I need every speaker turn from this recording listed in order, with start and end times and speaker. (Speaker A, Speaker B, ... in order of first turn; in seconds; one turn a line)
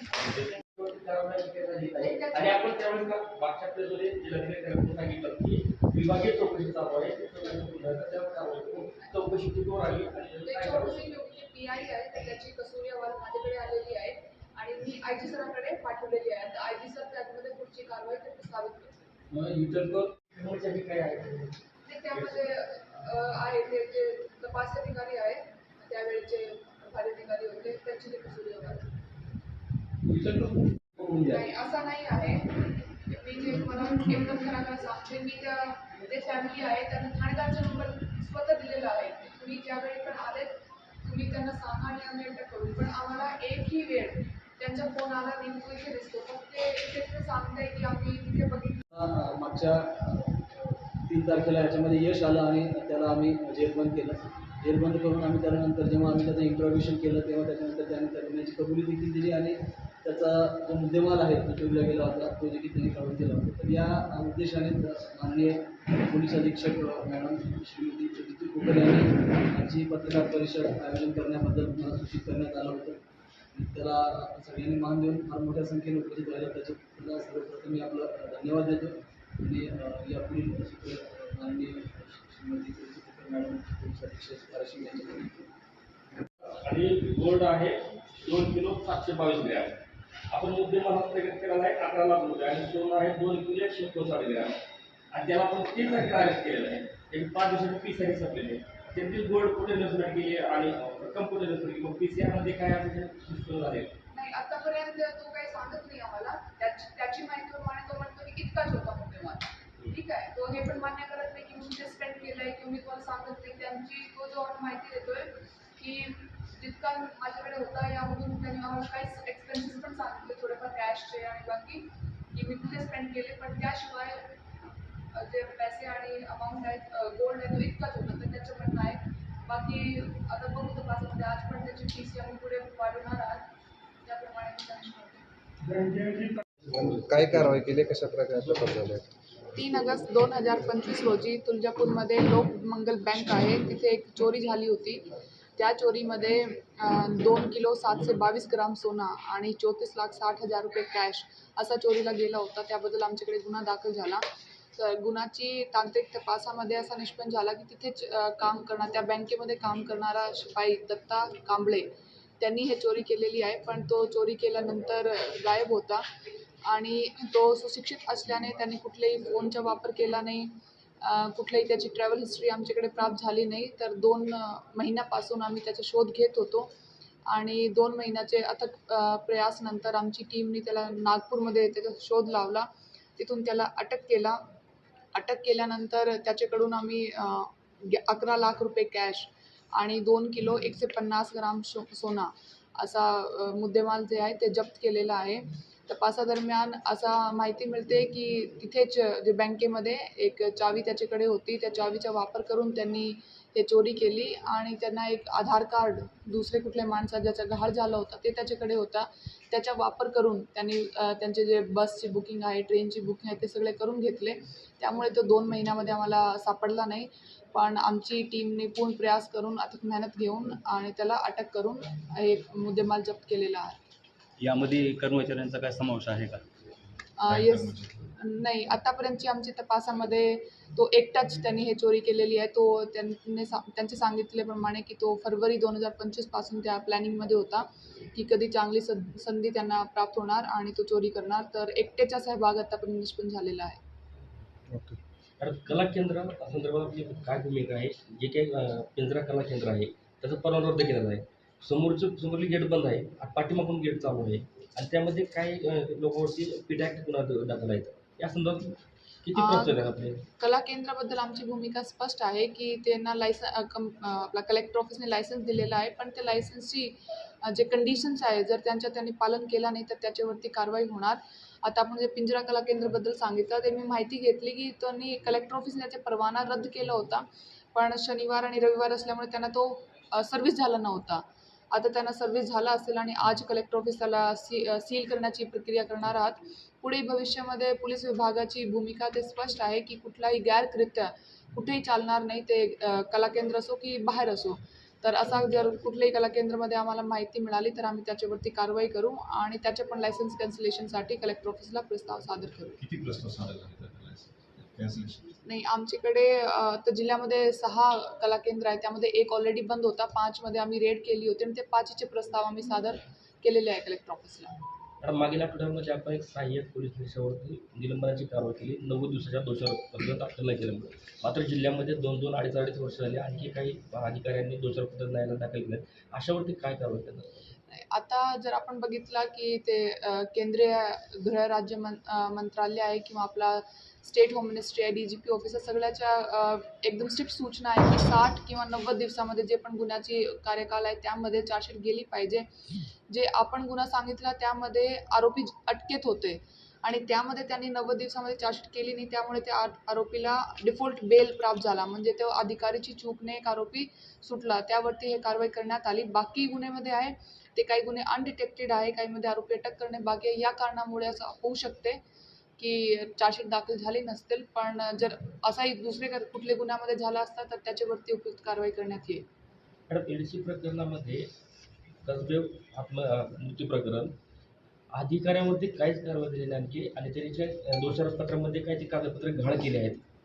Speaker A: 0.2-11.0
Speaker B: 2.0-2.8
Speaker B: 10.4-19.1
Speaker A: 19.3-21.5
Speaker B: 21.8-28.9
Speaker A: 22.1-22.4
Speaker A: 30.1-31.4
Speaker B: 31.2-48.8
Speaker C: 48.9-85.5
Speaker A: 86.4-94.6
Speaker A: 95.1-103.9
Speaker B: 104.1-124.4
Speaker B: 125.1-133.5
Speaker B: 134.0-135.3
Speaker D: 136.6-139.1
Speaker B: 139.5-154.2
Speaker B: 154.7-166.1
Speaker B: 166.6-176.7
Speaker B: 177.3-184.4
Speaker B: 185.1-223.8
Speaker E: 224.4-226.4
Speaker B: 227.2-243.8
Speaker D: 244.7-245.0
Speaker A: 245.4-260.2
Speaker B: 259.3-259.8
Speaker B: 260.4-302.8
Speaker F: 302.8-305.1
Speaker B: 305.4-314.6
Speaker A: 315.0-327.3
Speaker B: 327.9-342.5
Speaker B: 343.1-362.0
Speaker B: 362.6-369.2
Speaker A: 369.9-371.3
Speaker A: 372.0-374.1
Speaker A: 374.9-380.0